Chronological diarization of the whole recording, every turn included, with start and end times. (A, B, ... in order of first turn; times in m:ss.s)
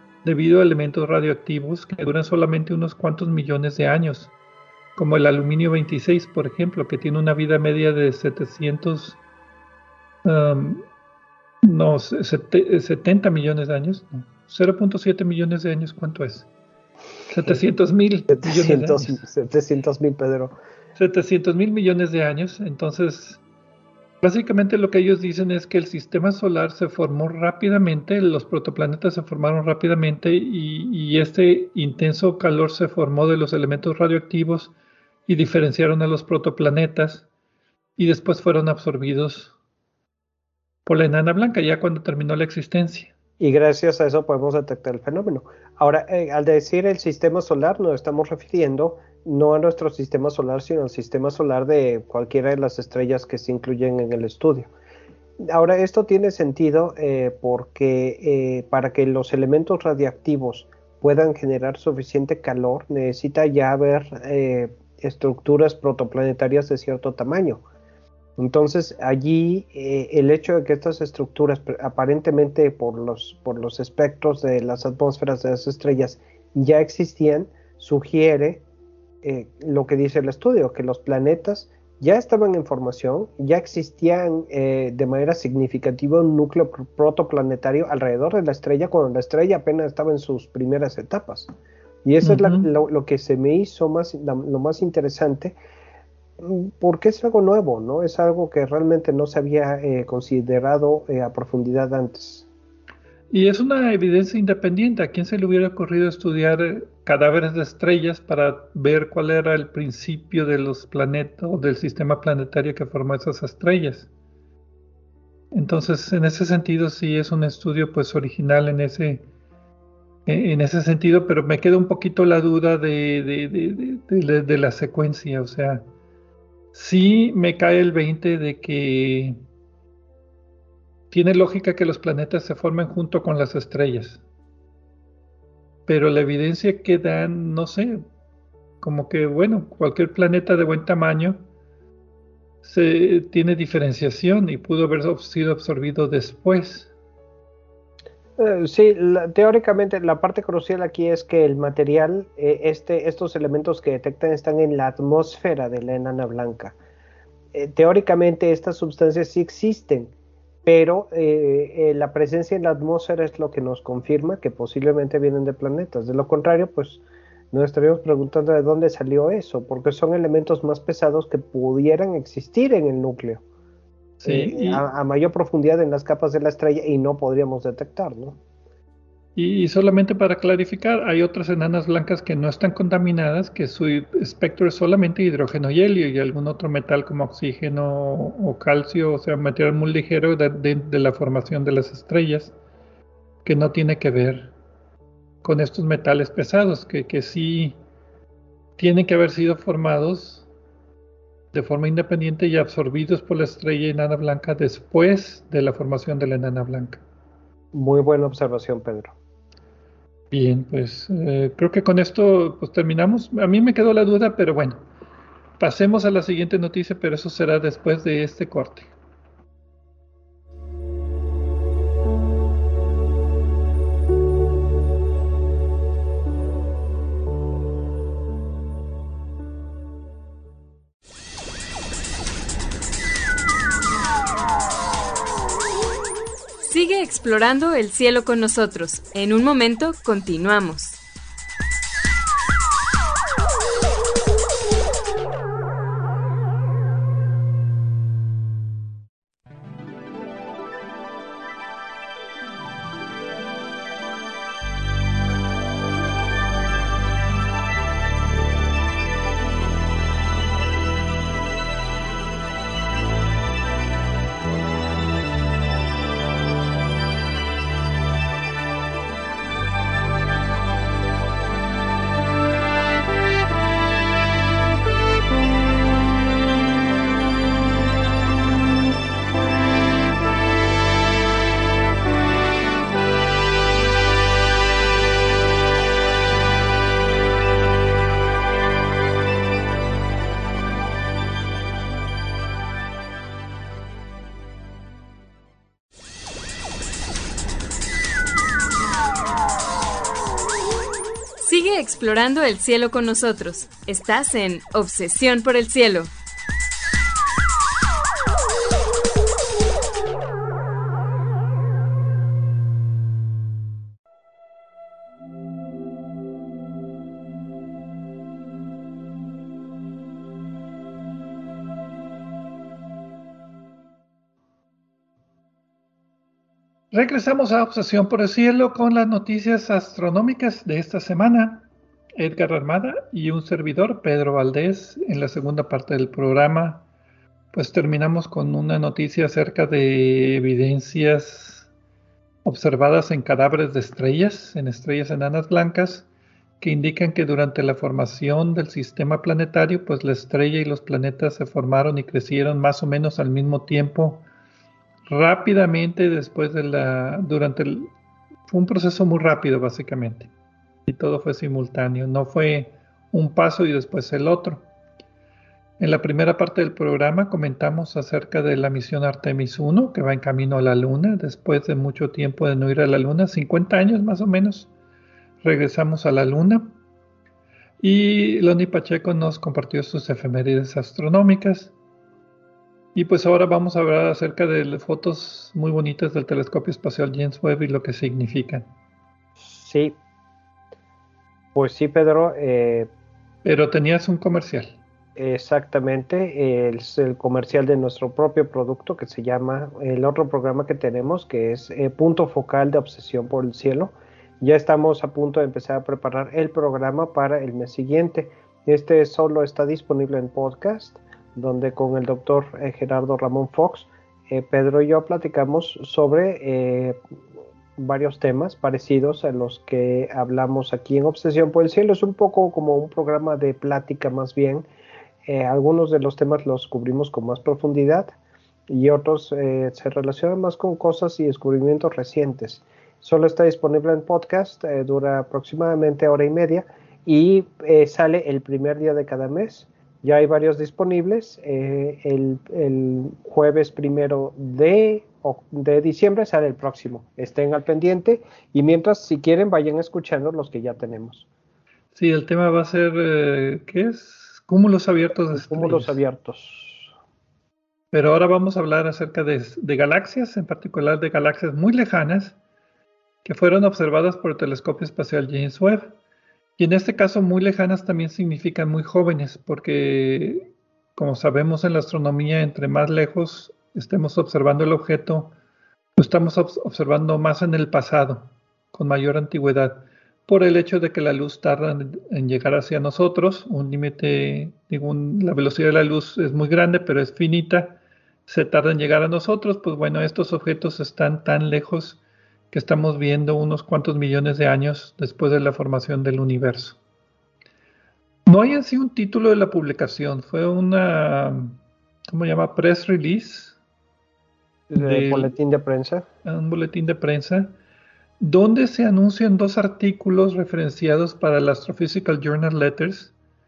0:00.2-0:04.3 A
0:05.0-0:09.2 A
0:10.2-0:10.8 A
0:11.6-0:16.5 A
0:17.3-0:19.2 A
0:18.3-0:20.5 B
0:21.0-0:23.4 A
0:24.2-0:34.7 A
0:35.3-0:37.3 A
0:38.0-0:39.6 A
0:40.9-0:43.1 A
0:43.4-0:54.7 B
0:55.4-1:07.6 B
1:08.4-1:18.6 B
1:19.2-1:31.5 B
1:32.0-1:35.6 B
1:32.2-1:32.7 A
1:36.4-1:42.5 B
1:43.3-1:54.1 A
1:55.5-1:59.3 A
2:00.3-2:05.9 A
2:06.7-2:09.4 A
2:11.1-2:14.2 A
2:15.9-2:18.0 A
2:18.8-2:21.4 A
2:22.6-2:26.9 A
2:28.4-2:36.8 B
2:37.5-2:40.1 B
2:40.6-2:53.4 B
2:54.2-2:54.8 A
2:54.2-2:58.4 B
2:59.4-3:12.6 A
3:13.4-3:14.5 A
3:15.4-3:17.8 A
3:18.8-3:20.5 A
3:21.5-3:27.0 A
3:27.7-3:29.1 B
3:30.3-3:34.8 A
3:35.6-3:38.9 A
3:56.6-4:01.0 C
5:01.4-5:06.1 C
5:26.9-5:36.8 A
5:37.5-5:41.7 A
5:42.4-5:46.1 A
5:46.6-5:54.2 A
5:55.1-5:57.9 A
5:58.5-6:00.3 A
6:00.9-6:04.6 A
6:05.8-6:14.7 A
6:15.4-6:16.7 A
6:17.8-6:21.7 A
6:23.0-6:28.7 A
6:29.4-6:30.0 B
6:31.6-6:32.9 B
6:33.4-6:34.8 A
6:35.2-6:57.0 B
6:57.8-7:04.7 B
7:05.3-7:08.1 B
7:08.7-7:31.3 B
7:31.9-7:36.0 A
7:35.3-7:36.9 B
7:37.9-7:42.4 A
7:43.2-7:46.0 A
7:46.6-7:55.3 A
7:56.0-8:16.8 A
8:18.3-8:21.6 A
8:22.1-8:23.6 A
8:24.7-8:26.0 B
8:24.8-8:25.4 A
8:26.2-8:27.6 A
8:28.2-8:33.1 A